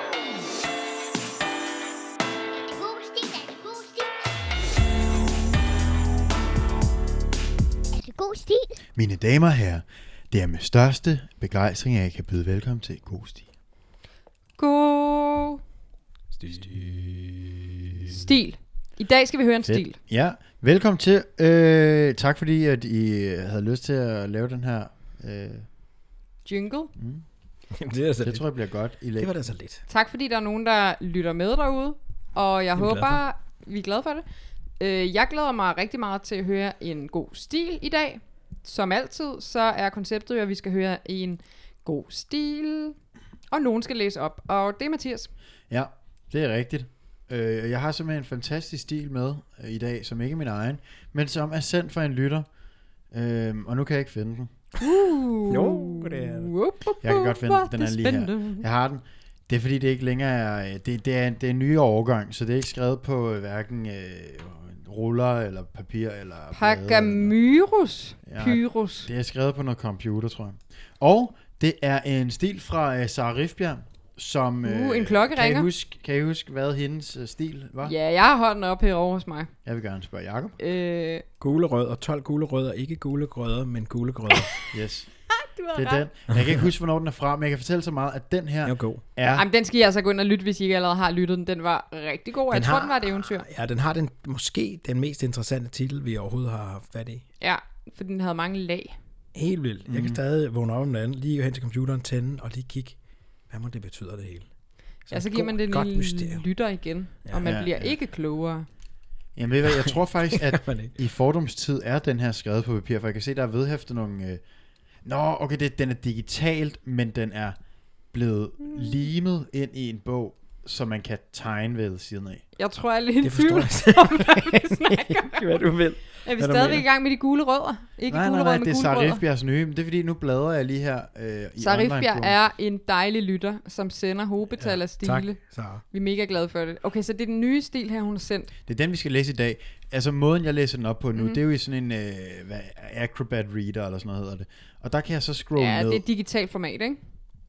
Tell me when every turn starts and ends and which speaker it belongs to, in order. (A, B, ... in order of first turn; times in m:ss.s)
0:02.5-0:04.2 A
0:07.9-0:08.8 A
0:08.9-0:13.4 B
0:14.6-0:15.6 C
0:16.3-0:17.2 D
0:16.5-0:17.3 B
0:18.1-0:20.0 C
0:19.6-0:25.7 B
0:26.4-0:26.9 C
0:27.0-0:27.2 B
0:27.8-0:28.4 D
0:28.2-0:29.3 B
0:29.2-0:29.8 D
0:29.9-0:34.2 C
0:32.7-0:33.2 D
0:34.8-0:43.0 C
0:43.5-0:45.3 C
0:45.7-0:52.4 B
0:53.1-0:54.5 B
0:54.8-0:58.6 C
0:55.5-0:56.5 D
0:57.0-1:07.3 B
1:06.5-1:09.1 C
1:08.2-1:18.0 B
1:14.6-1:15.7 C
1:17.8-1:19.5 C
1:19.6-1:20.6 B
1:20.6-1:21.2 C
1:21.4-1:24.5 D
1:24.3-1:24.6 C
1:24.7-1:25.1 B
1:25.3-1:26.1 C
1:25.7-1:29.4 B
1:28.6-1:29.0 D
1:29.3-1:33.4 C
1:32.5-1:37.2 D
1:37.4-1:39.0 C
1:39.3-1:43.0 D
1:39.9-1:40.2 B
1:43.5-1:44.5 D
1:45.0-1:46.4 D
1:45.1-1:48.7 C
1:47.4-1:47.9 B
1:49.4-1:54.4 B
1:49.8-1:50.9 D
1:55.0-1:57.6 B
1:58.1-2:02.4 B
2:02.6-2:05.6 C
2:03.2-2:06.8 D
2:06.2-2:09.2 C
2:08.1-2:12.4 B
2:11.6-2:15.4 C
2:14.6-2:15.8 D
2:15.9-2:18.5 C
2:18.6-2:26.0 B
2:25.6-2:27.0 C